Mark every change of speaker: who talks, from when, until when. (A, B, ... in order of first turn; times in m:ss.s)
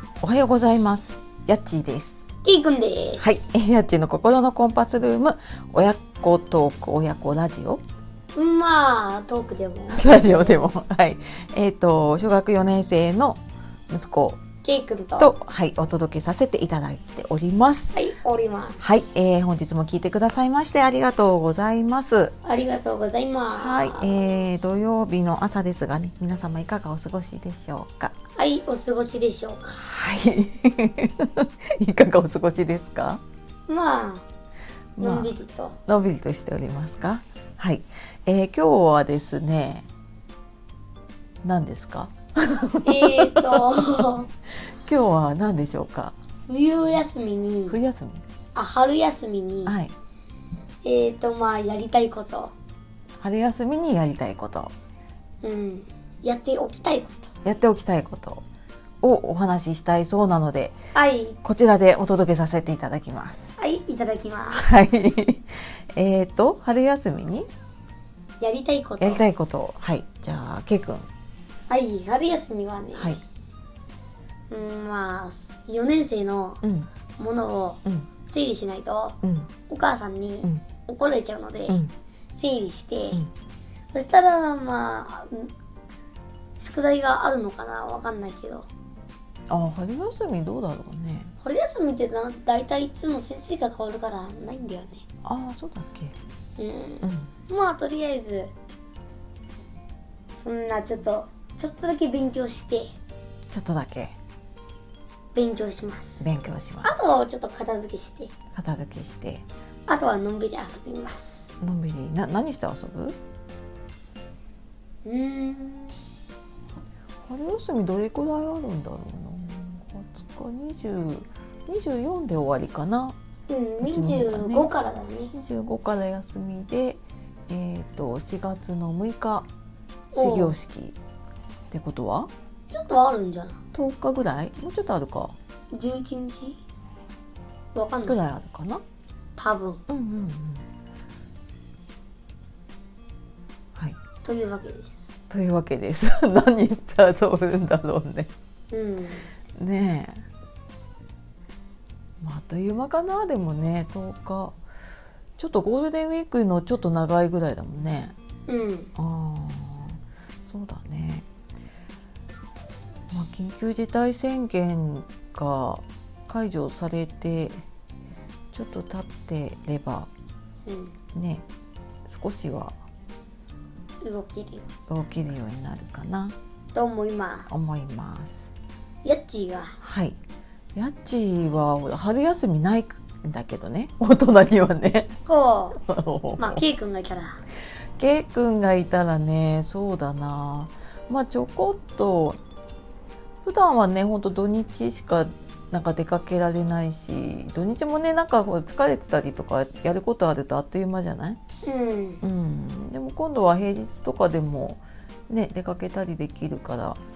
0:00.2-0:02.3 A
0:02.4-0:03.3 B
0:03.2-0:07.8 A
0:08.4-0:10.4 B
0:09.9-0:14.4 A
0:14.6-0:15.4 B
0:15.2-0:18.0 A
0:17.9-0:18.8 B
0:18.8-0:22.4 A
0:22.4-0:24.2 B
0:23.5-0:28.2 A
0:28.4-0:29.8 B
0:29.8-0:33.2 A
0:33.7-0:34.3 B
0:35.0-0:35.3 A
0:35.0-0:35.8 B
0:35.9-0:39.9 A
0:41.4-0:44.0 A
0:42.8-0:44.3 B
0:44.8-0:46.2 A
0:46.5-0:47.8 B
0:47.7-0:48.2 A
0:48.6-0:49.8 B
0:49.7-0:50.0 A
0:50.8-0:52.5 B
0:53.2-0:54.7 A
0:55.4-0:57.3 B
0:57.4-0:58.4 A
0:59.0-1:00.8 A
1:00.9-1:01.4 B
1:01.4-1:03.6 A
1:03.6-1:04.7 B
1:04.5-1:07.5 A
1:08.4-1:09.2 B
1:09.0-1:11.1 A
1:11.7-1:13.2 B
1:13.0-1:13.2 A
1:14.5-1:16.6 B
1:16.6-1:16.9 A
1:17.2-1:21.8 B
1:19.2-1:19.5 A
1:22.3-1:23.2 B
1:23.9-1:25.5 B
1:26.6-1:28.7 B
1:29.5-1:31.3 A
1:31.4-1:35.0 B
1:35.2-1:36.2 A
1:36.6-1:38.5 B
1:37.0-1:37.3 A
1:40.3-1:42.9 B
1:43.5-1:44.2 A
1:45.3-1:46.3 B
1:46.2-1:46.9 A
1:46.8-1:48.3 B
1:48.5-1:49.5 A
1:49.9-1:51.5 B
1:51.6-1:53.2 A
1:55.0-1:56.0 B
1:57.2-2:03.2 A
2:03.5-2:05.3 B
2:03.8-2:04.7 A
2:05.3-2:09.5 A
2:10.1-2:11.0 A
2:10.1-2:10.6 B
2:11.7-2:12.3 A
2:12.7-2:13.6 B
2:13.7-2:15.4 A
2:15.7-2:16.6 B
2:17.8-2:18.2 B
2:18.0-2:18.8 A
2:19.4-2:19.8 B
2:19.9-2:20.6 A
2:24.2-2:25.2 B
2:25.3-2:28.3 A
2:28.7-2:29.3 B
2:29.6-2:30.3 A
2:32.2-2:34.6 A
2:35.4-2:38.2 A
2:38.5-2:38.9 B
2:39.0-2:41.3 A
2:43.1-2:47.6 A
2:48.5-2:50.1 A
2:50.7-2:51.0 B
2:51.2-2:51.4 A
2:52.1-2:52.8 A
2:54.0-2:54.7 B
2:54.9-2:56.4 A
2:56.7-2:57.5 B
2:57.5-2:58.5 A
2:59.0-2:59.8 B
2:59.8-3:00.2 A
3:00.8-3:05.1 A
3:05.3-3:05.8 B
3:05.8-3:06.6 A
3:06.4-3:07.4 B
3:08.0-3:12.4 A
3:13.4-3:21.4 A
3:21.6-3:22.2 B
3:22.2-3:27.0 A